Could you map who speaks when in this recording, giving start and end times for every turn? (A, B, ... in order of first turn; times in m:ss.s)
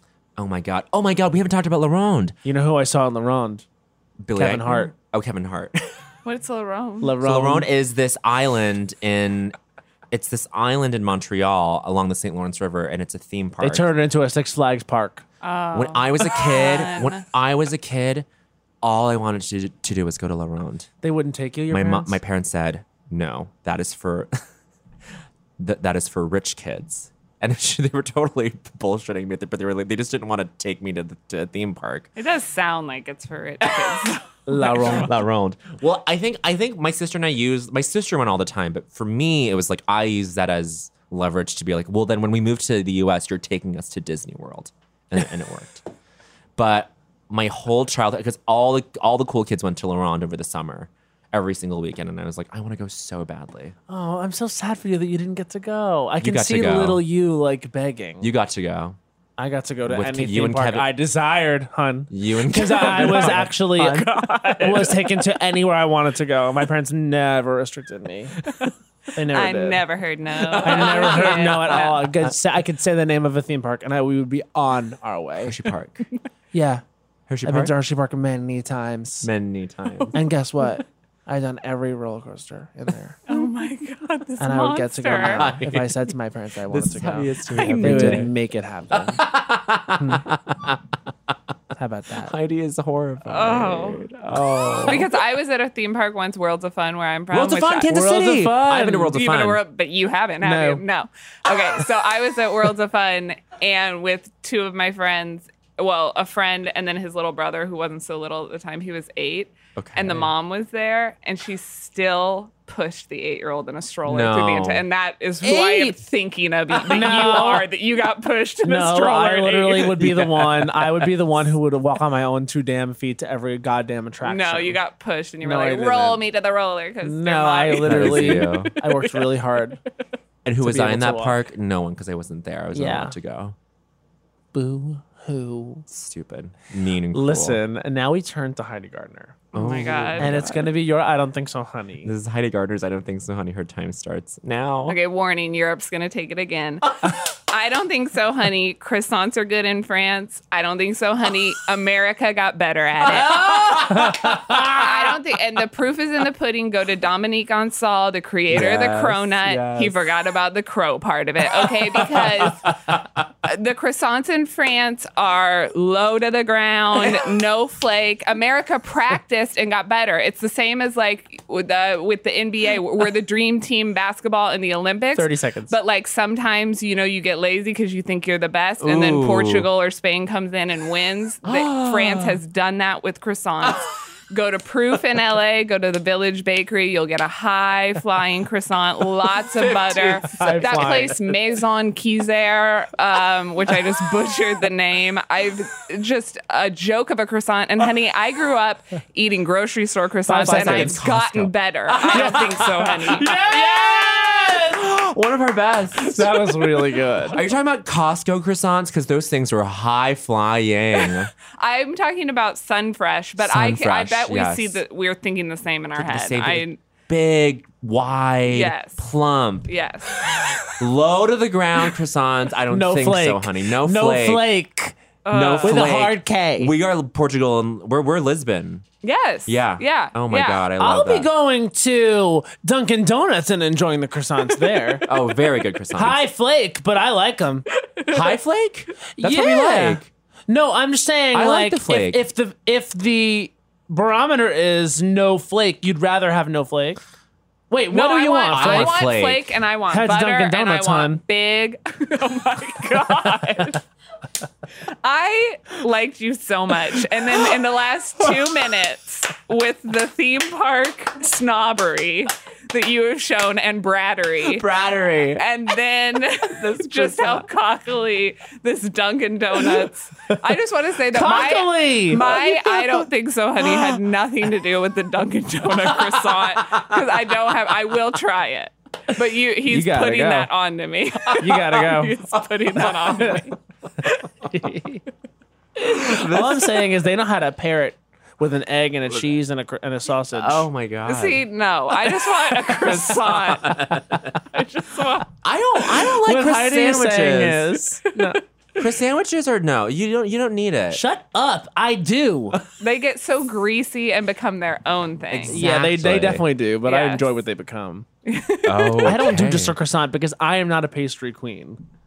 0:00.4-0:02.4 A
0:02.4-0:03.6 B
0:04.2-0:05.8 A
0:04.4-0:04.9 B
0:06.2-0:07.1 C
0:07.0-0:07.7 B
0:07.2-0:09.6 A
0:10.1-0:13.9 A
0:13.6-0:15.2 B
0:15.4-0:17.2 C
0:15.7-0:18.3 A
0:18.8-0:20.9 A
0:21.0-0:22.2 B
0:21.7-0:24.4 A
0:25.6-0:32.1 A
0:32.2-0:35.1 C
0:33.6-0:34.1 A
0:34.5-0:35.1 B
0:34.6-0:45.8 A
0:46.6-0:53.7 A
0:53.9-0:58.3 B
0:56.2-0:57.0 A
0:58.2-0:59.0 A
0:59.4-1:08.4 B
0:59.8-1:00.9 A
1:02.1-1:05.0 A
1:02.8-1:03.4 C
1:04.1-1:04.6 C
1:09.1-1:09.8 B
1:09.3-1:12.1 C
1:10.6-1:12.0 A
1:10.6-1:15.5 B
1:15.4-1:16.0 A
1:16.5-1:16.8 B
1:17.3-1:17.7 A
1:17.4-1:19.3 B
1:19.2-1:20.1 A
1:20.1-1:23.2 B
1:23.3-1:25.5 C
1:24.4-1:29.2 B
1:25.2-1:26.0 A
1:26.7-1:28.3 A
1:27.5-1:28.2 C
1:28.9-1:30.8 A
1:30.0-1:30.2 B
1:31.7-1:32.3 B
1:32.2-1:35.1 A
1:33.2-1:34.1 C
1:34.9-1:37.9 C
1:37.3-1:39.6 A
1:37.9-1:39.1 B
1:39.1-2:00.2 C
1:40.4-1:40.8 B
1:49.8-1:50.3 A
1:54.0-1:54.8 A
1:55.4-1:55.9 B
1:56.8-1:57.6 B
1:58.6-2:04.8 B
2:00.6-2:00.9 A
2:04.2-2:08.9 C
2:05.4-2:06.2 B
2:07.0-2:09.8 B
2:07.8-2:08.7 A
2:10.4-2:13.6 A
2:10.6-2:11.4 B
2:12.7-2:13.2 B
2:14.5-2:15.8 B
2:15.9-2:17.6 A
2:17.1-2:19.4 B
2:19.5-2:20.6 A
2:19.5-2:20.7 C
2:20.2-2:22.1 B
2:22.0-2:25.0 A
2:24.9-2:42.8 C
2:33.0-2:34.9 A
2:38.5-2:40.1 A
2:41.5-2:43.2 A
2:43.4-3:23.3 C
2:55.1-2:55.7 B
2:58.8-2:59.7 A
3:01.4-3:02.4 A
3:09.6-3:11.2 A
3:10.3-3:11.1 B
3:20.3-3:21.0 B
3:20.4-3:31.3 A
3:22.1-3:24.8 B
3:26.0-3:27.4 B
3:31.0-3:36.8 C
3:33.4-3:34.8 A
3:35.9-3:39.7 A
3:38.5-3:39.0 C
3:39.7-3:40.7 C
3:40.8-3:44.4 A
3:42.7-3:45.0 B
3:45.2-3:46.0 C
3:45.3-3:48.8 A
3:45.6-3:46.7 B
3:49.0-3:50.6 C
3:49.5-3:51.3 A
3:50.8-3:55.0 B
3:55.0-3:56.2 A
3:55.9-3:57.6 B
3:57.9-3:58.3 C
3:58.1-4:00.1 A
3:59.2-4:07.0 B
4:01.3-4:02.2 A
4:07.7-4:09.0 B
4:07.9-4:13.8 C
4:08.5-4:09.5 A
4:09.9-4:11.2 B
4:15.0-4:24.7 C
4:24.4-4:25.4 A
4:25.4-4:44.2 C
4:26.5-4:27.4 A
4:31.1-4:32.9 B
4:33.6-4:34.0 A
4:35.8-4:37.0 A
4:39.7-4:40.5 B
4:41.3-4:41.8 A
4:41.4-4:42.2 B
4:42.8-4:43.1 A
4:44.4-4:45.0 B
4:45.8-4:50.7 B
4:45.9-4:46.7 A
4:50.3-4:51.5 A
4:51.0-4:53.8 C
4:52.6-4:54.6 A
4:54.5-4:55.3 C
4:55.4-4:57.8 A
4:56.2-4:58.4 B
4:58.8-5:01.0 A
5:00.9-5:02.6 B
5:02.8-5:05.6 C
5:05.3-5:06.4 A
5:05.5-5:08.0 B
5:06.8-5:07.3 C
5:08.2-5:09.3 C
5:08.6-5:09.8 A
5:09.0-5:11.8 B